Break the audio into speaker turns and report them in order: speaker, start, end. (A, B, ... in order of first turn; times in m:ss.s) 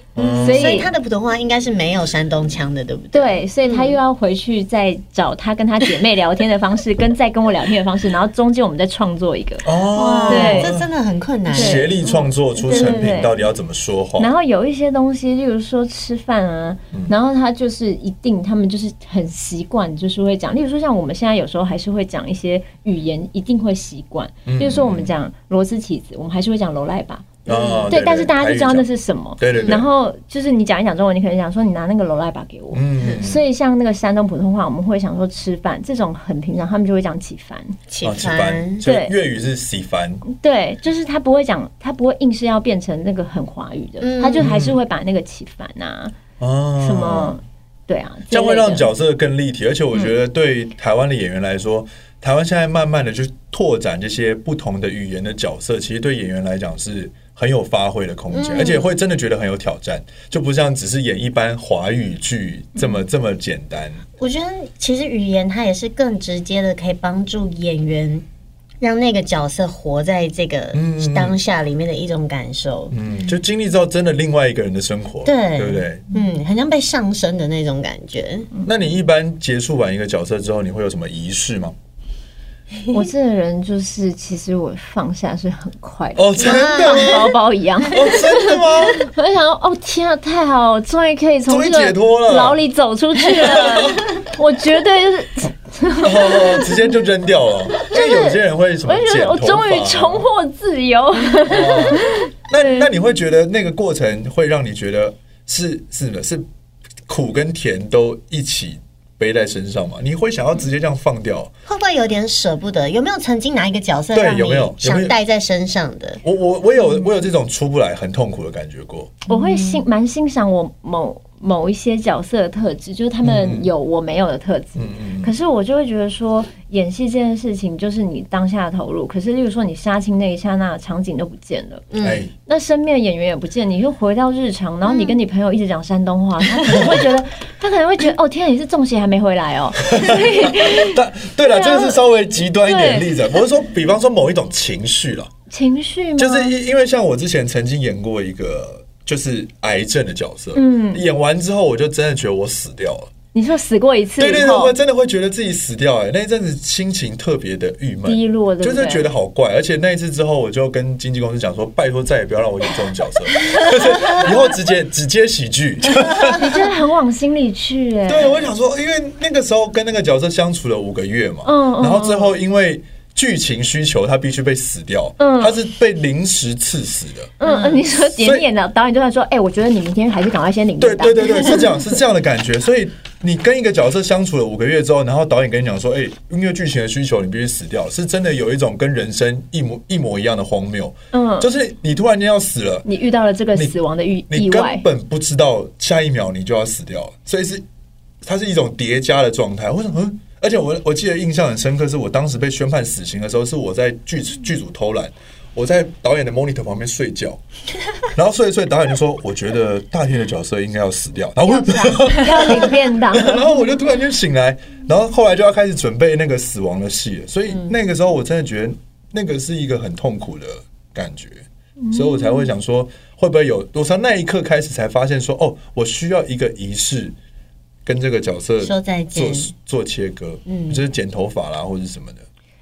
0:00.2-0:00.9 A
0:00.2-0:04.0 B
0:00.3-0:00.9 C
0:03.1-0:09.7 C
0:09.6-0:10.9 A
0:09.9-0:12.9 B
0:10.3-0:10.7 C
0:11.5-0:13.3 C
0:11.5-0:14.3 A
0:14.2-0:37.8 C
0:24.5-0:25.1 A
0:27.5-0:28.1 B
0:27.5-0:28.9 A
0:29.4-0:29.9 A
0:29.5-0:29.8 B
0:32.7-0:33.4 A
0:33.0-0:33.3 B
0:37.9-0:38.8 B
0:38.0-0:40.2 A
0:38.8-0:39.1 C
0:40.2-0:46.1 C
0:44.0-0:44.5 B
0:44.4-0:44.8 A
0:46.4-0:47.4 A
0:46.8-0:48.9 C
0:48.3-1:04.0 A
0:58.3-0:58.9 B
1:04.2-1:08.2 B
1:08.8-1:13.0 B
1:10.7-1:11.4 A
1:12.9-1:16.0 A
1:15.2-1:18.5 B
1:18.6-1:21.8 A
1:22.9-1:36.8 C
1:26.2-1:27.3 A
1:26.4-1:27.3 B
1:27.9-1:29.1 A
1:31.5-1:32.6 A
1:33.3-1:34.0 A
1:36.0-1:40.2 A
1:37.7-1:42.8 C
1:41.5-1:46.4 A
1:47.1-1:51.5 A
1:51.7-1:56.2 B
1:54.1-1:55.2 A
1:56.2-1:59.2 A
1:59.3-2:11.8 C
1:59.3-1:59.9 B
2:03.2-2:03.7 A
2:04.8-2:05.3 A
2:11.9-2:12.2 B
2:12.0-2:12.3 A
2:12.4-2:22.0 C
2:14.8-2:15.2 B
2:16.7-2:17.0 A
2:20.0-2:25.3 A
2:22.6-2:23.2 C
2:25.5-2:26.5 C
2:26.2-2:33.1 A
2:30.6-2:31.0 C
2:33.3-2:34.8 C
2:34.2-2:46.7 A
2:38.1-2:39.1 C
2:46.3-2:48.5 C
2:48.1-2:57.3 A
2:51.4-2:52.4 C
2:55.2-2:55.6 C
2:57.4-3:01.7 C
2:57.4-2:57.8 B
2:58.0-2:58.4 A
3:00.8-3:12.9 A
3:11.1-3:11.5 C
3:12.8-3:14.8 C
3:14.3-3:17.6 A
3:18.2-3:27.4 A
3:28.1-3:47.2 A
3:31.4-3:33.6 C
3:41.8-3:42.5 C
3:47.8-3:52.2 A
3:48.6-3:49.5 B
3:50.5-3:50.8 B